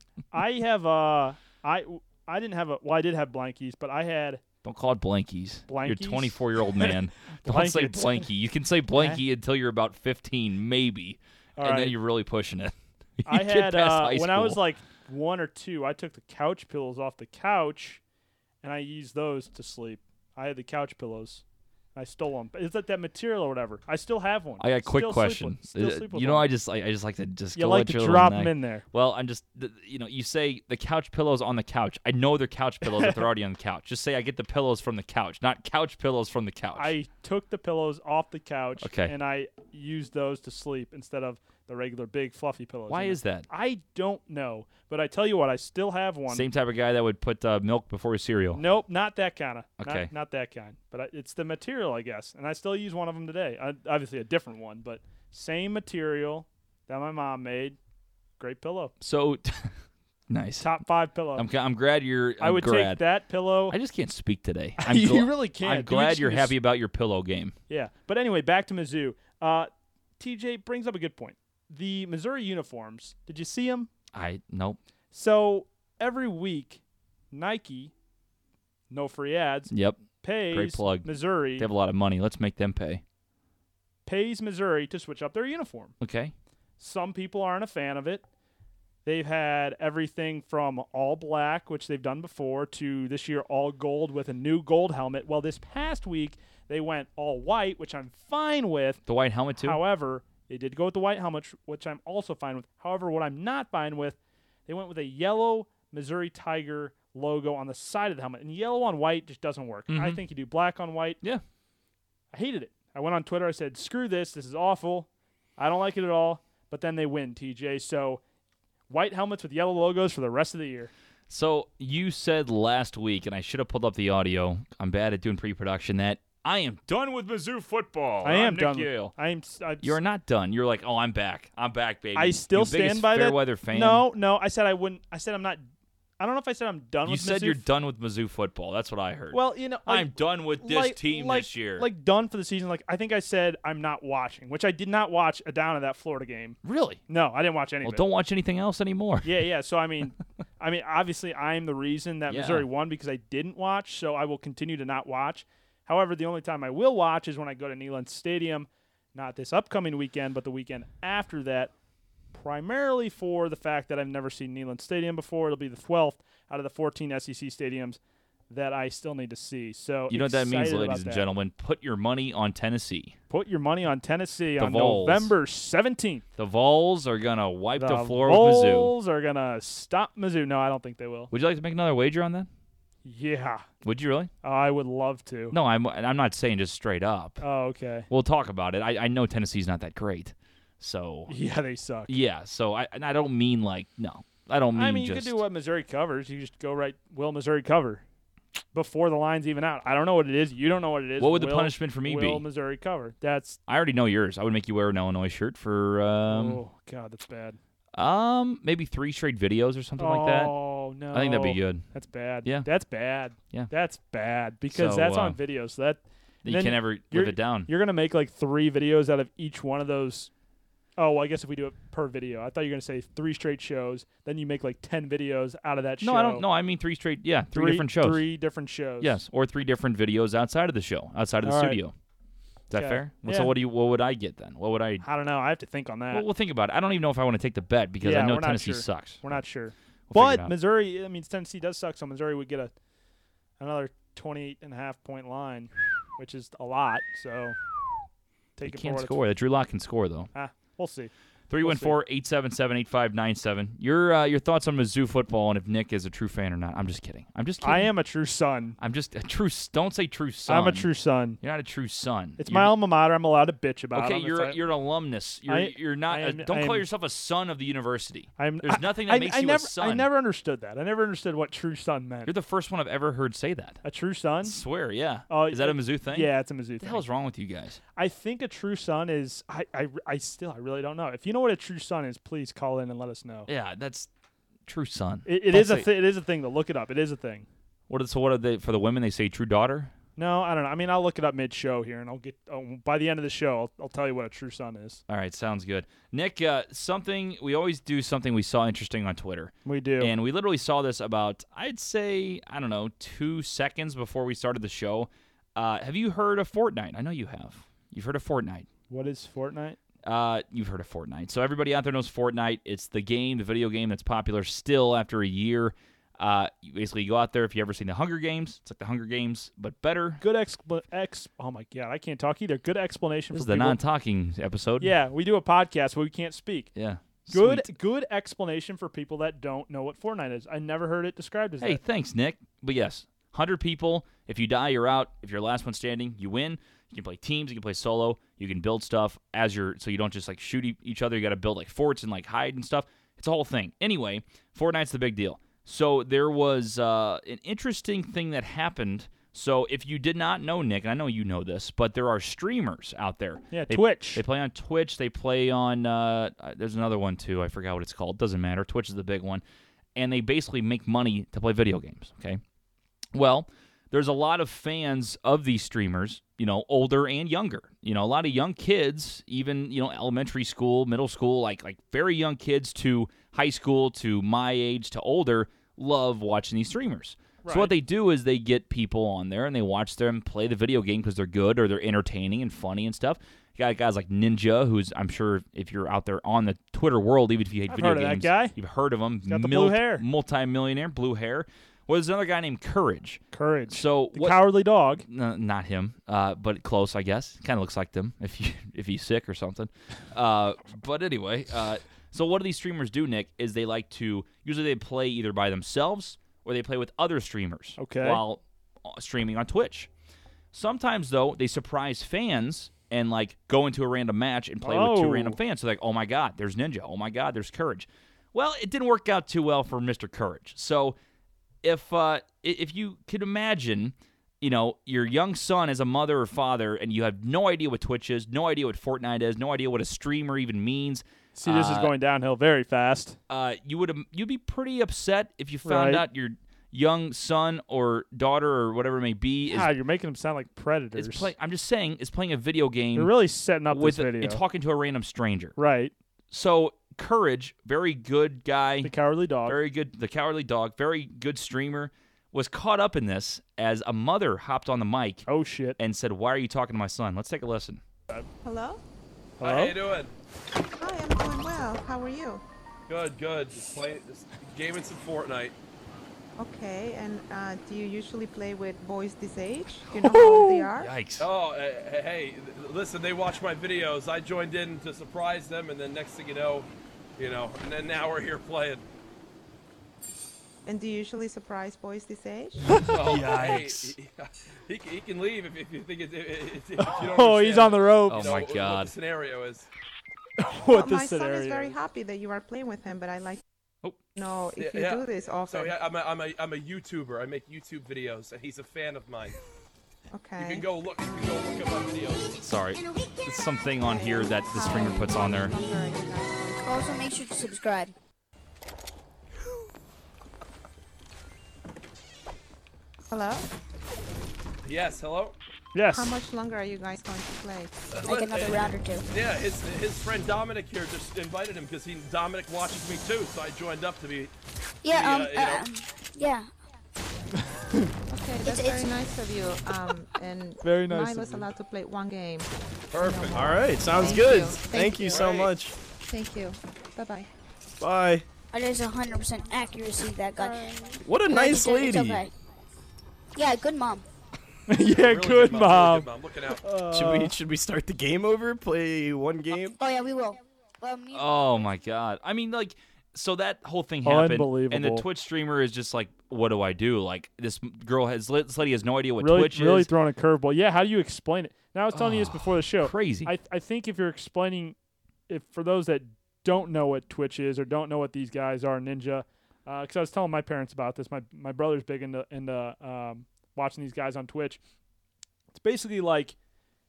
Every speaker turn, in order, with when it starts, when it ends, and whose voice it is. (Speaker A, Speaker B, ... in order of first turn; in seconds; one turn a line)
Speaker A: 0.3-4.4
Speaker B: 4.6-14.6
Speaker A: 5.7-8.3
Speaker A: 8.9-9.2
Speaker A: 11.6-11.9
Speaker A: 13.2-18.0
Speaker A: 18.6-21.4
Speaker A: 21.9-26.4
Speaker B: 24.6-36.9
Speaker A: 27.5-28.8
Speaker A: 32.8-33.2
Speaker A: 36.8-46.5
Speaker B: 38.8-39.1
Speaker B: 42.9-43.5
Speaker B: 46.3-48.6
Speaker A: 48.5-57.8
Speaker B: 49.8-50.1
Speaker A: 58.4-58.9
Speaker B: 59.0-59.7
Speaker B: 60.3-60.7
Speaker A: 60.6-61.5
Speaker B: 61.3-63.0
Speaker A: 62.4-63.8
Speaker B: 63.7-67.5
Speaker A: 64.8-66.5
Speaker A: 67.7-73.9
Speaker B: 74.1-74.8
Speaker A: 75.1-76.8
Speaker A: 77.3-77.9
Speaker A: 78.9-81.7
Speaker B: 79.7-83.0
Speaker A: 84.0-85.9
Speaker B: 86.0-86.3
Speaker A: 86.8-88.2
Speaker A: 89.0-99.0
Speaker B: 99.0-99.8
Speaker A: 99.6-111.2
Speaker B: 109.9-110.2
Speaker A: 112.3-118.2
Speaker A: 118.9-120.9
Speaker B: 121.3-129.1
Speaker A: 128.2-129.9
Speaker B: 129.8-134.0
Speaker A: 132.1-135.6
Speaker A: 136.2-137.6
Speaker B: 137.0-141.9
Speaker A: 139.3-146.6
Speaker B: 146.6-147.0
Speaker A: 147.1-148.0
Speaker B: 147.8-149.3
Speaker A: 149.2-161.7
Speaker B: 152.3-152.7
Speaker A: 162.3-168.0
Speaker A: 168.5-171.2
Speaker B: 170.1-173.2
Speaker A: 173.3-176.2
Speaker B: 174.6-175.3
Speaker B: 176.4-178.9
Speaker A: 177.8-181.3
Speaker B: 181.3-182.5
Speaker A: 183.0-183.6
Speaker B: 183.8-184.3
Speaker A: 184.4-185.6
Speaker B: 185.5-187.4
Speaker A: 187.4-188.1
Speaker B: 188.1-191.3
Speaker A: 191.3-192.1
Speaker B: 192.1-195.4
Speaker A: 194.7-198.0
Speaker A: 198.7-203.6
Speaker B: 201.2-202.4
Speaker B: 203.7-206.6
Speaker A: 206.3-207.6
Speaker B: 207.9-210.5
Speaker A: 210.0-220.3
Speaker B: 211.1-211.8
Speaker B: 214.7-215.4
Speaker B: 216.4-217.7
Speaker A: 221.0-226.4
Speaker B: 226.0-228.2
Speaker A: 227.5-229.2
Speaker B: 229.0-231.9
Speaker A: 231.4-231.8
Speaker B: 232.7-235.0
Speaker A: 232.7-233.5
Speaker A: 235.0-236.2
Speaker B: 236.1-239.4
Speaker A: 238.0-242.7
Speaker B: 240.1-240.5
Speaker A: 243.6-247.6
Speaker A: 248.6-249.2
Speaker B: 248.6-250.3
Speaker A: 250.3-252.0
Speaker B: 251.5-257.9
Speaker A: 257.6-258.8
Speaker B: 258.8-260.9
Speaker A: 260.5-261.4
Speaker B: 261.4-262.7
Speaker A: 262.4-264.6
Speaker B: 263.9-270.1
Speaker A: 265.5-266.9
Speaker A: 268.4-272.3
Speaker B: 272.2-273.8
Speaker A: 273.8-274.6
Speaker B: 274.4-277.8
Speaker A: 275.3-277.0
Speaker A: 277.9-283.5
Speaker B: 283.5-284.1
Speaker B: 284.6-285.9
Speaker A: 285.2-287.5
Speaker B: 287.9-289.9
Speaker A: 290.2-295.0
Speaker B: 295.1-308.7
Speaker A: 299.6-300.1
Speaker A: 308.9-309.8
Speaker B: 310.0-320.2
Speaker A: 320.2-323.8
Speaker B: 323.3-324.9
Speaker A: 324.8-326.7
Speaker B: 326.7-327.7
Speaker A: 327.3-331.8
Speaker B: 331.6-359.4
Speaker A: 353.5-354.2
Speaker B: 359.9-362.4
Speaker B: 363.1-394.4
Speaker A: 377.4-377.7
Speaker A: 387.7-388.6
Speaker A: 389.3-390.0
Speaker A: 393.3-395.0
Speaker B: 395.0-409.9
Speaker A: 407.8-408.2
Speaker B: 410.5-421.0
Speaker A: 414.6-415.4
Speaker B: 421.6-431.9
Speaker A: 431.3-433.2
Speaker B: 433.3-439.7
Speaker A: 435.6-436.0
Speaker A: 439.5-441.3
Speaker B: 440.9-443.1
Speaker A: 442.9-444.4
Speaker B: 443.7-445.5
Speaker A: 445.6-445.9
Speaker B: 446.3-448.9
Speaker A: 448.8-449.6
Speaker B: 449.4-455.2
Speaker A: 455.3-455.8
Speaker B: 455.8-457.8
Speaker C: 458.4-458.8
Speaker A: 459.4-459.8
Speaker D: 459.4-460.1
Speaker C: 460.8-462.4
Speaker D: 462.9-465.5
Speaker C: 466.4-470.9
Speaker B: 469.9-471.3
Speaker D: 471.2-478.8
Speaker C: 480.6-482.8
Speaker D: 482.8-489.7
Speaker B: 482.9-483.9
Speaker A: 486.8-488.4
Speaker B: 488.1-488.9
Speaker A: 490.4-491.8
Speaker C: 490.7-493.4
Speaker C: 494.1-495.7
Speaker D: 494.6-499.4
Speaker C: 500.1-500.7
Speaker D: 500.4-502.4
Speaker B: 502.4-505.5
Speaker C: 503.8-507.1
Speaker E: 506.6-507.9
Speaker C: 513.1-513.5
Speaker D: 514.6-515.4
Speaker A: 515.7-516.1
Speaker C: 515.9-517.9
Speaker D: 517.9-524.3
Speaker E: 518.0-519.0
Speaker E: 524.8-526.5
Speaker D: 524.9-525.6
Speaker A: 527.4-527.9
Speaker C: 528.1-535.4
Speaker E: 528.4-528.9
Speaker A: 530.6-531.5
Speaker D: 532.9-533.5
Speaker F: 533.3-535.7
Speaker D: 535.1-535.5
Speaker C: 536.1-537.3
Speaker F: 537.8-538.3
Speaker E: 538.5-542.3
Speaker C: 540.4-540.8
Speaker F: 541.0-542.2
Speaker E: 543.3-544.0
Speaker A: 544.7-546.1
Speaker D: 544.9-546.6
Speaker A: 546.6-547.3
Speaker F: 546.9-549.8
Speaker E: 549.7-551.2
Speaker B: 551.1-559.9
Speaker A: 554.0-555.0
Speaker A: 559.2-564.8
Speaker B: 561.9-563.3
Speaker A: 565.3-574.6
Speaker A: 575.5-576.4